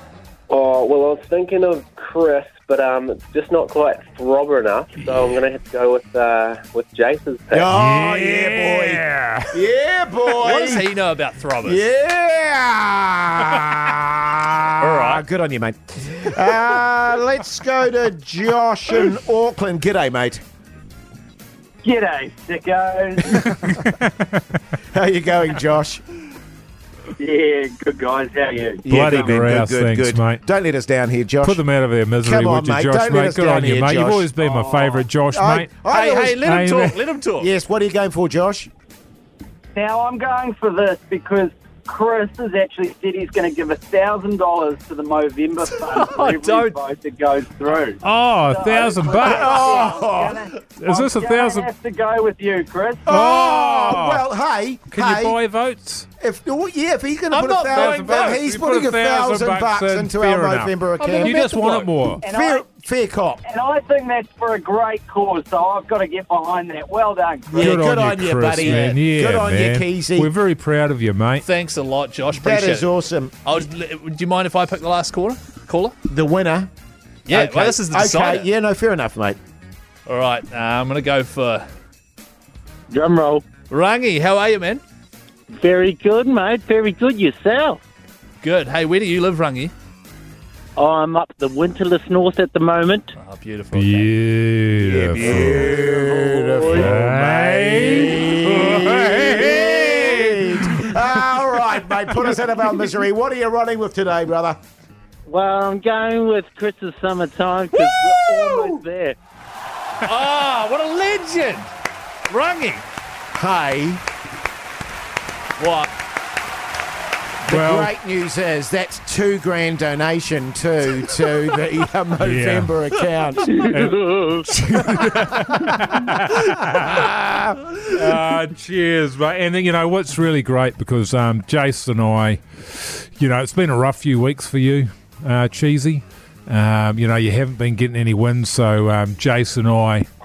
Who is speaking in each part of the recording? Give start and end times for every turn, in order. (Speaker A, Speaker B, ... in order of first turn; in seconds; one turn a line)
Speaker A: 0.5-7.7
Speaker B: 7.5-10.9
Speaker C: 7.7-9.5
Speaker D: 10.4-11.8
Speaker B: 11.6-20.4
Speaker D: 14.8-15.2
Speaker E: 21.8-23.4
Speaker C: 23.4-24.4
Speaker B: 24.9-26.0
Speaker E: 27.2-28.8
Speaker B: 28.8-31.6
Speaker C: 28.9-30.4
Speaker C: 31.4-35.7
Speaker B: 32.2-34.3
Speaker E: 34.4-35.0
Speaker B: 35.3-36.5
Speaker D: 35.9-37.5
Speaker C: 36.4-37.0
Speaker B: 37.4-38.7
Speaker E: 39.7-53.1
Speaker D: 45.8-46.8
Speaker C: 48.0-49.9
Speaker B: 49.2-50.5
Speaker C: 50.8-51.7
Speaker B: 53.0-55.4
Speaker C: 53.0-54.2
Speaker C: 54.9-56.1
Speaker B: 56.2-63.4
Speaker C: 57.3-62.2
Speaker D: 57.7-58.2
Speaker D: 61.0-61.8
Speaker E: 62.2-62.6
Speaker E: 63.4-67.7
Speaker B: 67.5-70.3
Speaker C: 67.5-71.4
Speaker D: 71.4-72.9
Speaker B: 72.3-73.3
Speaker D: 73.4-75.9
Speaker B: 76.1-76.7
Speaker D: 77.3-78.5
Speaker B: 77.3-79.4
Speaker D: 80.0-81.7
Speaker E: 82.9-83.4
Speaker D: 83.7-84.8
Speaker D: 88.4-89.7
Speaker D: 93.1-94.1
Speaker C: 93.7-95.8
Speaker B: 94.8-104.6
Speaker E: 96.0-96.8
Speaker C: 96.7-100.9
Speaker E: 106.3-109.1
Speaker D: 110.0-111.7
Speaker D: 112.3-112.8
Speaker B: 113.3-114.0
Speaker D: 115.6-115.9
Speaker B: 117.4-123.9
Speaker C: 117.5-117.9
Speaker C: 122.2-122.7
Speaker C: 123.5-127.1
Speaker B: 124.7-125.6
Speaker B: 126.8-127.6
Speaker C: 127.9-140.1